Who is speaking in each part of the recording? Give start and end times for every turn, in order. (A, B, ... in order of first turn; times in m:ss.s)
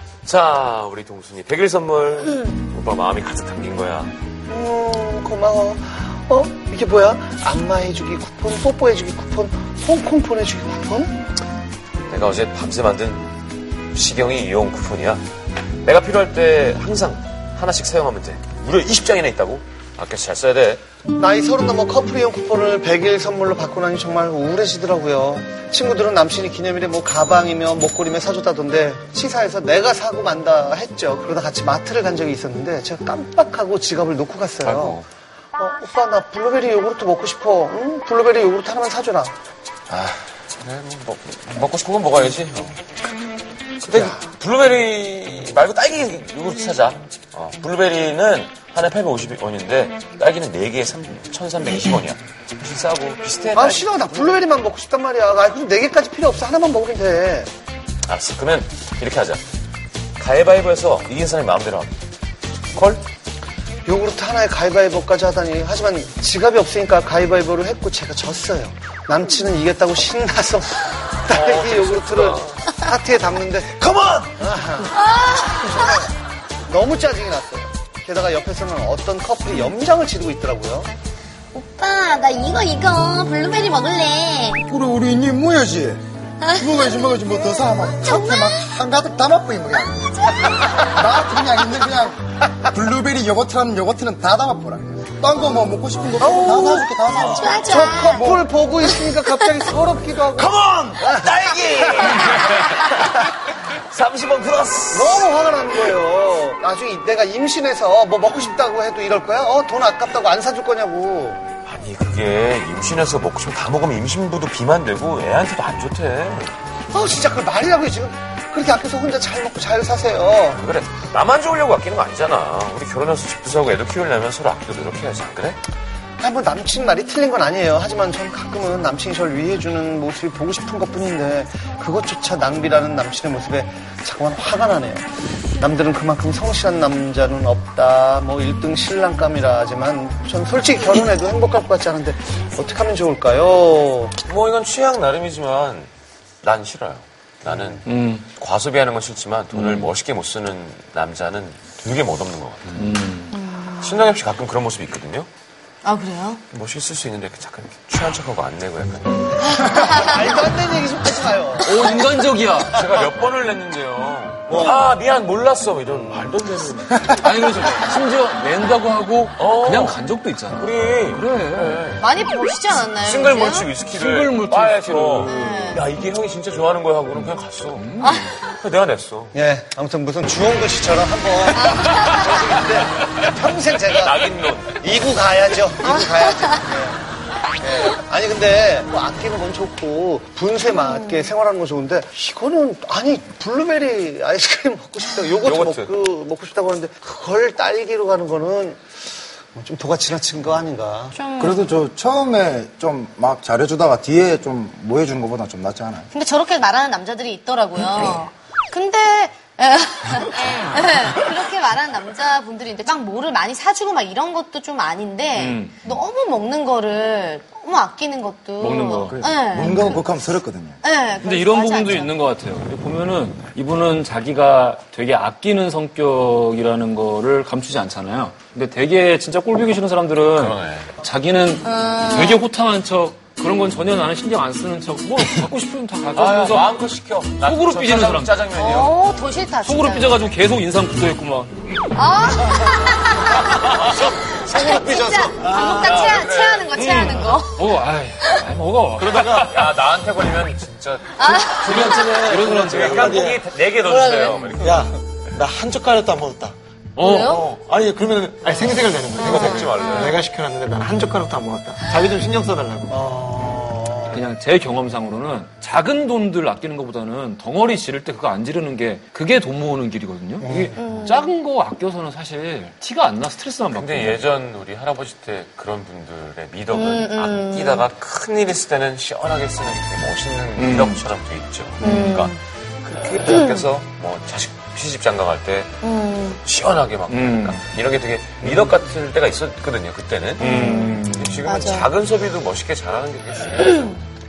0:00.2-0:04.1 A
0:04.5-0:11.2 B
0:12.1-0:13.3 A
0:13.9-0:15.2 A
0:15.8-0:20.8 A
0:21.2-0:35.0 B
0:34.6-0:35.0 A
0:35.6-0:39.3 B
0:39.9-0:42.8 A
0:43.8-0:54.4 A
0:53.5-0:57.5 B
0:58.1-0:59.4 A
1:00.2-1:01.9 A
1:02.7-1:03.0 A
1:03.8-1:13.8 B
1:11.3-1:12.6 A
1:14.4-1:15.0 B
1:14.9-1:16.1 C
1:16.6-1:20.9 B
1:21.5-1:24.6 C
1:24.6-1:38.4 D
1:26.4-1:26.8 C
1:27.8-1:28.6 C
1:30.2-1:30.9 C
1:36.2-1:36.9 B
1:37.2-1:38.3 C
1:37.5-1:41.3 B
1:40.4-1:45.3 A
1:41.9-1:42.2 B
1:44.9-1:51.4 B
1:51.6-1:56.6 A
1:56.9-2:00.6 B
2:00.5-2:05.6 A
2:06.2-2:15.1 B
2:15.6-2:24.1 B
2:24.2-2:25.9 A
2:26.4-2:32.9 A
2:27.4-2:27.8 B
2:27.8-2:28.3 E
2:29.5-2:29.9 E
2:32.7-2:33.4 E
2:33.3-2:34.0 C
2:33.7-2:35.3 A
2:35.8-2:36.4 C
2:36.5-2:39.4 A
2:39.4-2:40.2 C
2:39.6-2:42.2 B
2:41.6-2:42.7 E
2:42.7-2:47.2 A
2:44.5-2:44.8 B
2:47.2-2:51.9 E
2:49.4-2:50.0 A
2:50.6-2:52.0 A
2:52.0-2:53.7 C
2:52.7-2:59.3 A
2:53.8-2:55.6 E
2:55.2-2:55.9 C
2:57.8-2:58.3 E
2:58.0-2:58.4 C
2:59.3-3:07.0 B
3:01.6-3:02.4 C
3:04.0-3:04.8 A
3:06.0-3:06.6 C
3:07.6-3:18.8 B
3:10.7-3:11.3 C
3:15.4-3:15.9 A
3:19.5-3:21.2 B
3:21.2-3:21.6 C
3:21.4-3:26.1 D
3:26.1-3:40.0 C
3:35.4-3:35.8 E
3:38.6-3:39.8 E
3:39.1-3:40.8 D
3:40.8-3:42.1 C
3:41.1-3:56.7 E
3:50.3-3:51.0 A
3:51.6-3:52.4 C
3:56.1-3:59.0 A
3:57.4-3:58.5 E
3:58.5-4:00.3 C
3:59.6-4:01.8 E
4:01.9-4:08.5 C
4:03.5-4:05.6 B
4:05.6-4:06.9 A
4:06.7-4:09.5 E
4:09.0-4:09.4 F
4:09.0-4:14.9 A
4:11.2-4:12.2 C
4:11.6-4:13.2 E
4:11.6-4:13.4 F
4:13.8-4:14.6 C
4:14.6-4:22.9 F
4:17.0-4:17.5 E
4:17.0-4:17.5 C
4:19.2-4:20.2 A
4:19.2-4:20.1 C
4:22.9-4:24.2 B
4:24.1-4:34.2 E
4:30.4-4:30.8 B
4:30.8-4:31.3 C
4:33.7-4:54.0 A
4:36.7-4:37.8 C
4:40.6-4:41.0 E
4:41.8-4:42.1 E
4:41.8-4:42.4 C
4:43.3-4:43.6 C
4:45.8-4:46.4 C
4:47.1-4:47.6 E
4:50.4-4:51.9 C
4:50.4-4:51.4 E